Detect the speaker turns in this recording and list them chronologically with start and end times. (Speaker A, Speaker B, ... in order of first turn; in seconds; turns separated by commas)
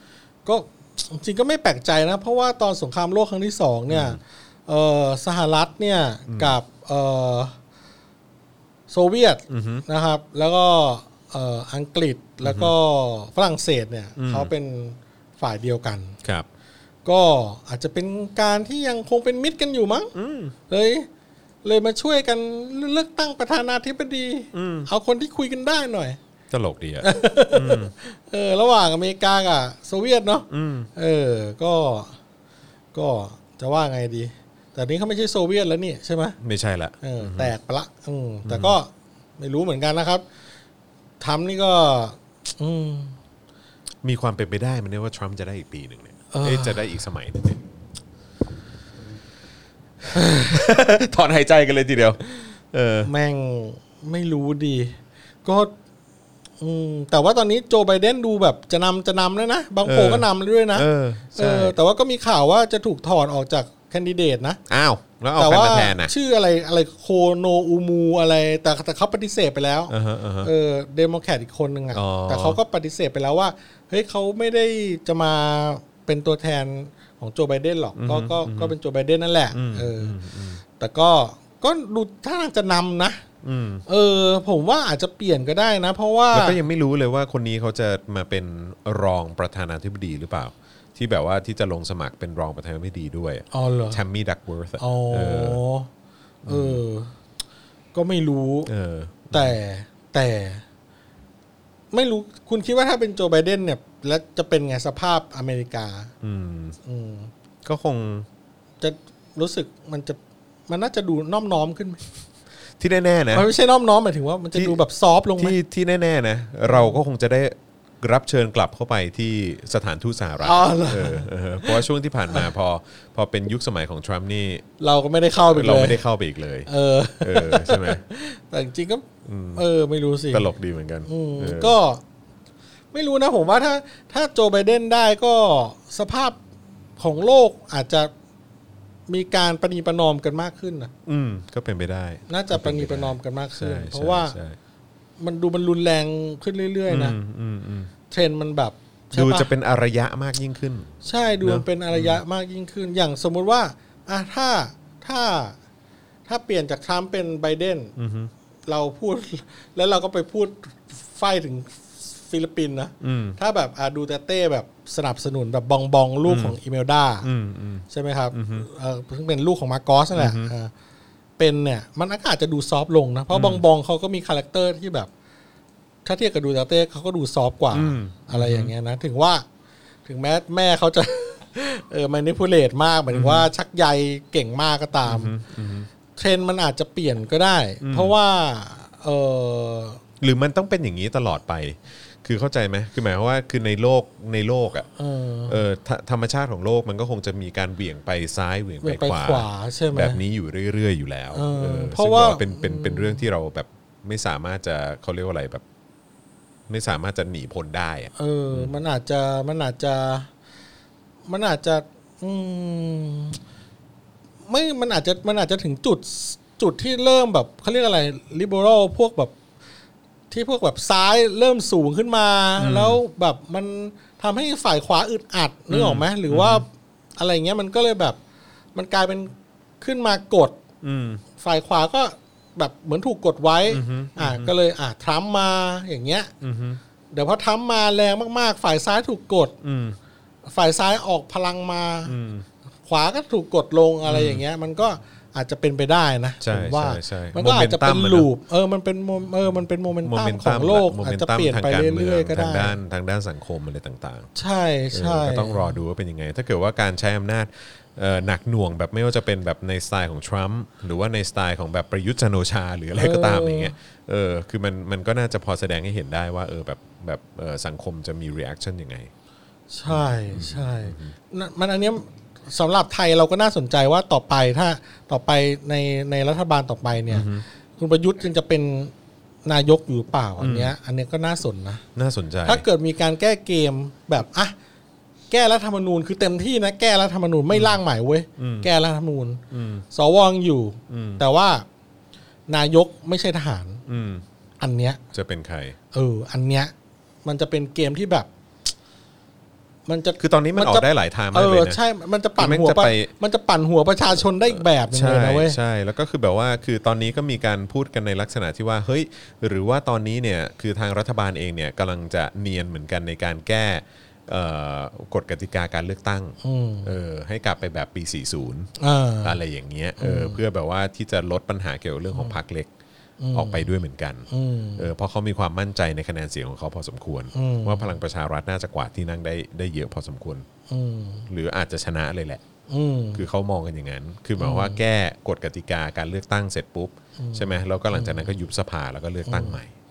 Speaker A: 0.5-7.5, Speaker B: 3.9-4.2, Speaker B: 6.3-6.5, Speaker A: 8.9-16.1, Speaker B: 9.5-9.8, Speaker B: 12.4-12.7, Speaker B: 14.2-14.5, Speaker A: 17.0-20.1, Speaker B: 20.1-20.5, Speaker A: 20.7-21.1, Speaker A: 21.6-26.2, Speaker B: 24.5-24.9, Speaker B: 26.5-27.9, Speaker A: 27.0-32.1, Speaker B: 30.5-30.9, Speaker A: 32.9-36.4, Speaker B: 36.4-37.5, Speaker A: 37.0-40.2, Speaker B: 38.5-38.7, Speaker A: 41.2-43.2, Speaker B: 44.0-47.6, Speaker A: 46.3-46.8, Speaker B: 50.1-53.1, Speaker A: 53.0-55.7, Speaker A: 56.6-64.6, Speaker B: 59.8-61.8, Speaker B: 64.7-66.1, Speaker A: 65.4-80.1, Speaker B: 69.9-70.5, Speaker B: 71.9-72.6, Speaker B: 78.0-78.7, Speaker B: 79.5-80.6, Speaker A: 80.8-83.2, Speaker B: 83.4-83.8, Speaker A: 83.9-86.6, Speaker B: 86.3-95.6, Speaker A: 93.5-94.0, Speaker A: 94.8-95.9, Speaker B: 96.4-96.8, Speaker A: 96.5-97.1, Speaker A: 97.9-98.7, Speaker B: 98.7-99.6, Speaker A: 99.3-100.6, Speaker A: 101.9-106.1, Speaker B: 106.2-106.8, Speaker A: 106.8-107.3, Speaker B: 107.6-108.3, Speaker A: 108.8-112.0, Speaker B: 112.8-113.5, Speaker A: 113.3-115.5, Speaker B: 114.5-114.8, Speaker B: 115.4-124.6, Speaker A: 116.7-116.9, Speaker A: 120.4-121.8, Speaker A: 124.8-126.0, Speaker B: 125.5-126.7, Speaker A: 126.7-130.5, Speaker B: 127.2-128.0, Speaker B: 129.2-129.6, Speaker B: 130.3-131.8, Speaker A: 131.1-132.0, Speaker A: 132.9-136.4, Speaker A: 137.0-138.1, Speaker A: 139.1-140.9, Speaker B: 141.1-144.6, Speaker A: 142.3-144.3, Speaker A: 145.2-147.2, Speaker B: 146.9-147.9, Speaker A: 148.1-149.5, Speaker B: 149.1-152.2, Speaker A: 151.0-155.6, Speaker A: 156.3-157.9, Speaker B: 157.9-158.3, Speaker A: 158.7-167.3, Speaker B: 163.0-163.4, Speaker B: 166.3-166.6, Speaker B: 167.2-168.7, Speaker A: 167.9-170.7, Speaker B: 170.1-170.5, Speaker A: 171.4-175.1, Speaker B: 173.3-173.6, Speaker A: 176.0-179.4, Speaker B: 177.7-178.7, Speaker A: 180.1-185.3, Speaker B: 183.1-183.5, Speaker B: 185.0-185.9, Speaker A: 186.2-190.0, Speaker B: 187.8-188.2, Speaker B: 190.2-194.9, Speaker A: 195.0-195.6, Speaker B: 195.5-205.6, Speaker A: 198.8-200.2, Speaker A: 201.3-203.2, Speaker B: 206.7-208.8, Speaker A: 208.2-210.3, Speaker A: 211.3-213.4, Speaker A: 214.5-219.3, Speaker A: 220.3-228.2, Speaker B: 222.6-223.0, Speaker B: 225.7-226.6, Speaker A: 228.7-230.6, Speaker B: 230.8-231.2, Speaker A: 231.4-236.3, Speaker B: 233.7-234.5, Speaker B: 236.4-236.8, Speaker A: 237.1-239.5, Speaker B: 239.6-240.0, Speaker A: 240.5-242.1, Speaker B: 242.1-242.4, Speaker A: 242.9-252.8, Speaker B: 244.0-244.4, Speaker B: 246.4-248.3, Speaker B: 250.0-254.3, Speaker A: 254.3-255.7, Speaker B: 254.9-269.1, Speaker A: 262.9-263.7, Speaker A: 269.7-278.9, Speaker B: 269.9-271.1, Speaker B: 277.1-277.4, Speaker A: 279.4-281.8, Speaker B: 280.4-280.7, Speaker B: 281.9-282.6, Speaker A: 282.4-284.5, Speaker A: 285.3-291.6, Speaker B: 287.5-287.8, Speaker B: 288.4-288.7, Speaker B: 289.5-289.8, Speaker B: 290.9-291.2, Speaker A: 292.5-293.8, Speaker B: 293.9-294.2, Speaker A: 294.6-295.0, Speaker B: 295.1-295.8, Speaker A: 295.9-296.7, Speaker A: 297.2-298.3, Speaker A: 299.9-305.6, Speaker B: 300.2-301.8, Speaker B: 302.4-303.1, Speaker B: 304.1-318.7, Speaker A: 316.4-316.9, Speaker A: 318.8-319.4, Speaker B: 319.2-322.7, Speaker A: 320.0-320.4, Speaker A: 323.2-323.7, Speaker B: 323.3-330.4, Speaker A: 324.3-324.9, Speaker A: 327.3-327.9, Speaker A: 330.7-331.3, Speaker B: 331.3-332.4, Speaker A: 332.7-333.2, Speaker B: 333.1-339.7, Speaker A: 334.4-334.8, Speaker A: 337.2-338.3, Speaker A: 339.2-339.6